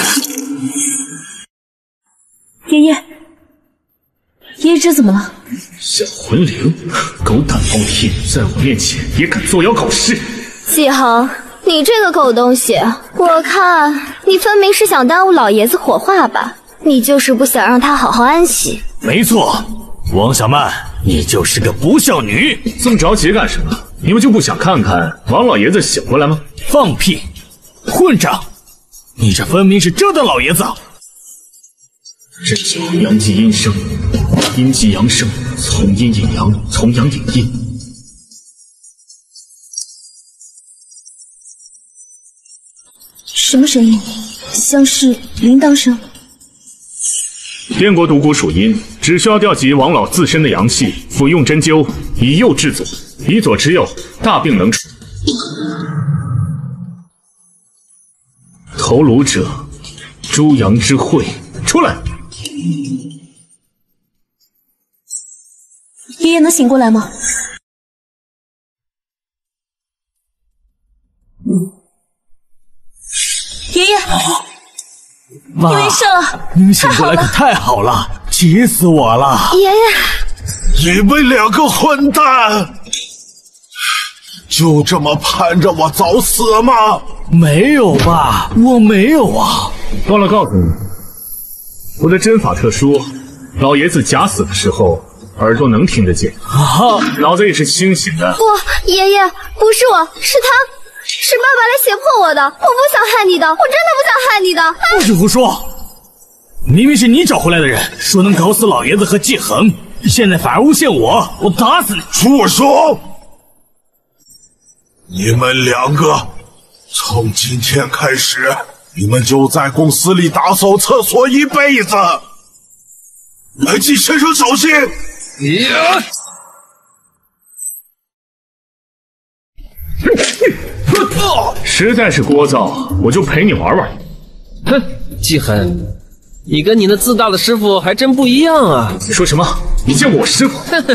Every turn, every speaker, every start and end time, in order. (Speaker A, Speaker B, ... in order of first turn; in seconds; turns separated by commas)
Speaker A: 4.6-5.3, Speaker B: 5.8-10.2, Speaker C: 10.7-18.8, Speaker D: 19.0-22.7, Speaker B: 22.8-26.4, Speaker D: 26.7-27.2, Speaker D: 27.9-28.4, Speaker D: 29.2-30.8, Speaker B: 32.4-37.6, Speaker A: 43.3-46.0, Speaker B: 47.7-54.9, Speaker B: 58.8-59.6, Speaker B: 60.3-62.0, Speaker A: 66.2-67.1, Speaker A: 73.7-74.1, Speaker D: 75.6-79.6, Speaker A: 75.7-76.3, Speaker C: 79.5-80.2, Speaker E: 80.7-82.7, Speaker E: 84.5-87.0, Speaker D: 87.3-89.7, Speaker B: 90.0-90.8, Speaker B: 92.0-96.4, Speaker D: 96.5-97.1, Speaker B: 96.9-98.4, Speaker C: 98.4-100.7, Speaker C: 101.2-105.0, Speaker D: 104.8-105.6, Speaker D: 106.7-112.1, Speaker E: 112.1-113.0, Speaker E: 115.1-116.3, Speaker E: 116.9-122.2, Speaker E: 123.6-124.9, Speaker F: 125.4-126.0, Speaker B: 131.6-133.9, Speaker F: 134.7-135.8, Speaker F: 136.5-139.0, Speaker B: 139.1-140.7